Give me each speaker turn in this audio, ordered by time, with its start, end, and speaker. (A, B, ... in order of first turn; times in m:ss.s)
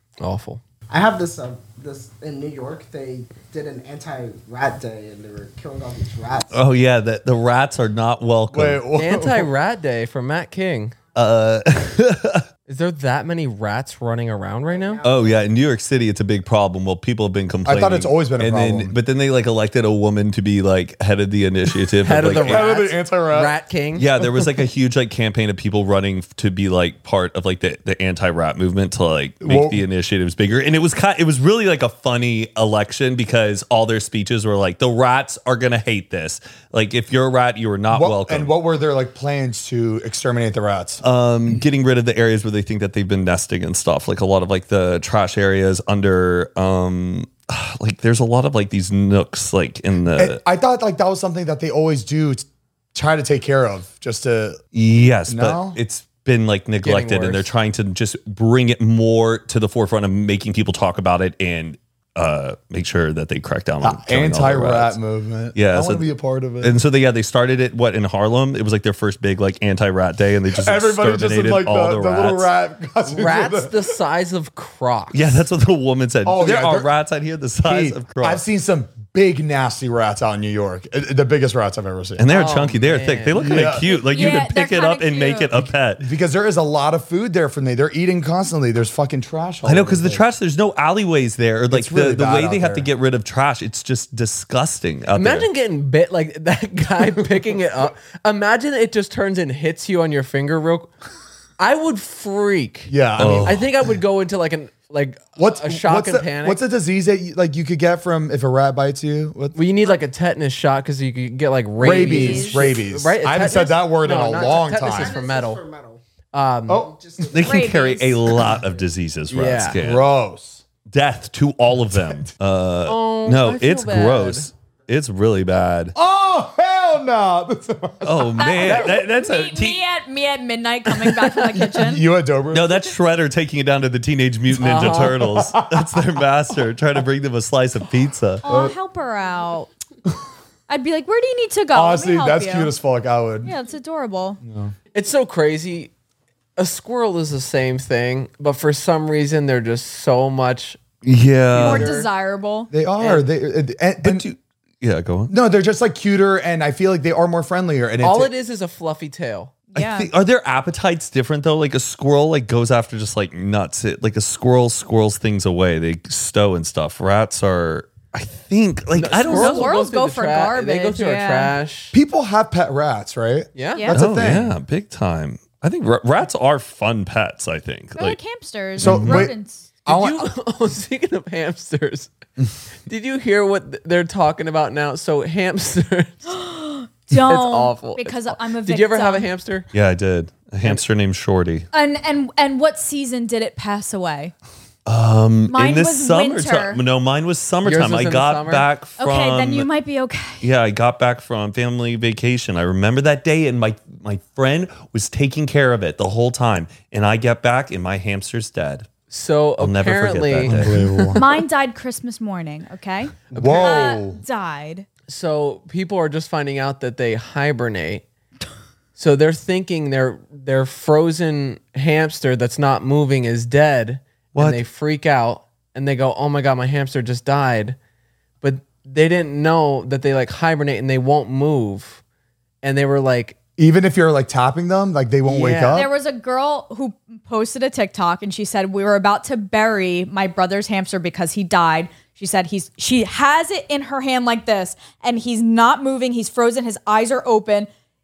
0:00.2-0:00.6 A
0:00.9-0:06.5 B
0:06.5-0:08.8 C
0:08.5-0:09.5 D
0:08.9-0:11.0 A
0:11.1-0:12.4 C
0:12.7-0:15.0 A
0:14.7-0:15.5 B
0:15.0-0:22.7 C
0:17.6-0:19.0 D
0:22.0-0:24.0 A
0:22.3-0:23.5 D
0:23.9-0:38.5 C
0:29.4-0:29.8 D
0:37.9-0:41.0 D
0:41.0-0:50.4 C
0:50.1-0:54.6 D
0:54.7-1:05.0 C
0:55.3-0:55.8 D
0:56.8-0:57.5 A
1:03.8-1:06.8 D
1:05.5-1:06.0 C
1:06.6-1:12.5 C
1:10.5-1:13.9 D
1:13.1-1:15.4 A
1:15.1-1:18.4 C
1:16.2-1:16.9 D
1:17.6-1:22.3 D
1:22.2-1:26.1 C
1:22.3-1:23.7 A
1:23.3-1:23.9 D
1:23.8-1:25.6 E
1:26.0-1:30.2 D
1:29.6-1:35.5 C
1:31.7-1:32.9 D
1:35.1-1:40.9 A
1:41.6-1:46.6 A
1:42.9-1:43.7 D
1:43.2-1:43.6 C
1:45.4-1:49.6 D
1:49.5-1:55.6 A
1:51.8-1:52.6 E
1:51.8-1:55.1 D
1:54.1-1:56.0 B
1:56.3-1:56.9 A
1:56.7-1:58.8 B
1:57.3-2:00.0 C
1:57.3-1:58.2 E
1:59.3-1:59.8 A
1:59.8-2:00.6 D
2:00.9-2:05.9 C
2:01.8-2:02.3 D
2:02.8-2:04.5 A
2:05.9-2:08.5 D
2:08.0-2:09.8 C
2:08.4-2:12.0 E
2:11.6-2:12.9 D
2:12.5-2:18.4 C
2:14.6-2:15.2 A
2:14.6-2:16.2 D
2:18.4-2:19.7 E
2:18.4-2:18.7 D
2:20.7-2:22.7 E
2:21.7-2:23.5 D
2:23.4-2:24.4 E
2:24.4-2:24.7 D
2:24.9-2:25.9 A
2:26.6-2:30.8 A
2:31.0-2:31.9 C
2:31.5-2:32.1 A
2:31.6-2:32.7 E
2:32.7-2:34.3 D
2:33.0-2:33.2 A
2:34.0-2:35.3 C
2:35.3-2:38.3 D
2:38.0-2:39.5 A
2:39.7-2:40.1 E
2:39.7-2:49.7 C
2:48.9-2:51.9 A
2:49.2-2:51.5 E
2:51.9-2:54.5 D
2:53.5-2:53.9 A
2:53.9-2:58.2 C
2:58.0-2:59.7 E
2:58.8-2:59.3 D
2:58.8-2:59.3 C
2:59.8-3:02.1 A
2:59.8-3:00.3 D
3:02.8-3:06.4 A
3:06.3-3:09.3 E
3:07.1-3:09.7 A
3:09.7-3:11.7 C
3:11.7-3:14.3 E
3:14.8-3:19.7 C
3:15.5-3:16.8 E
3:17.6-3:18.6 A
3:19.0-3:20.4 E
3:20.4-3:28.9 C
3:29.1-3:31.1 A
3:29.6-3:30.9 C
3:30.4-3:31.2 D
3:31.1-3:34.9 E
3:33.3-3:33.9 A
3:33.3-3:34.2 D
3:35.1-3:38.0 A
3:39.0-3:47.8 A
3:44.3-3:44.6 C
3:48.4-3:52.0 A
3:52.6-3:53.4 A
3:53.6-3:55.9 D
3:55.2-3:55.9 A
3:55.7-4:07.7 E